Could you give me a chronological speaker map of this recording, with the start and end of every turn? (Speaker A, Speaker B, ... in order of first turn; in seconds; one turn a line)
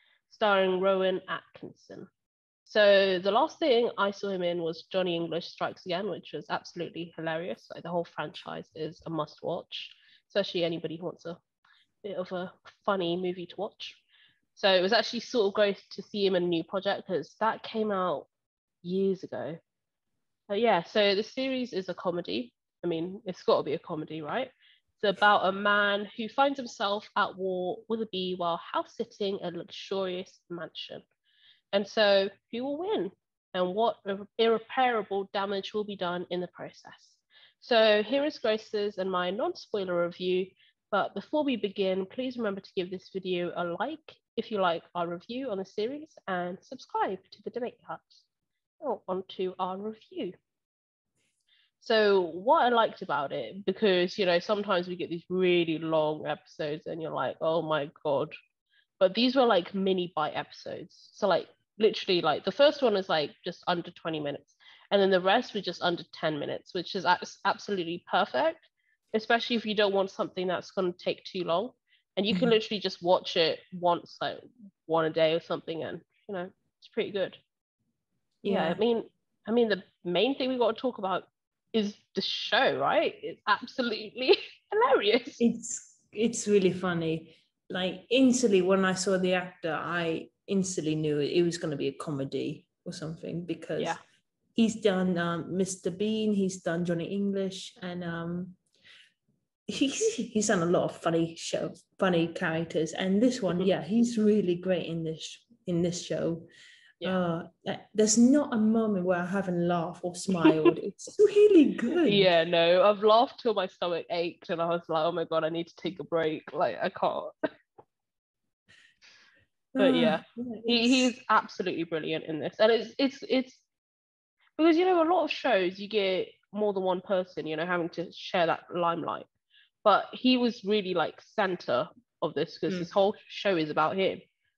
Speaker A: 0.3-2.1
Speaker A: 2.6-11.4
Speaker A: 12.0-14.0
Speaker A: 14.6-18.3
Speaker A: 18.8-19.6
Speaker A: 20.5-31.0
Speaker A: 31.7-48.2
Speaker A: 48.8-50.3
Speaker A: 51.8-58.3
Speaker A: 59.0-77.4
Speaker B: 72.3-72.6
Speaker B: 78.4-78.8
Speaker A: 78.5-85.4
Speaker B: 85.4-94.0
Speaker B: 94.6-98.6
Speaker B: 99.7-106.5
Speaker B: 107.0-112.3
Speaker A: 112.0-117.3
Speaker B: 119.8-121.1
Speaker A: 119.8-123.7
Speaker A: 124.6-129.3
Speaker A: 129.8-134.2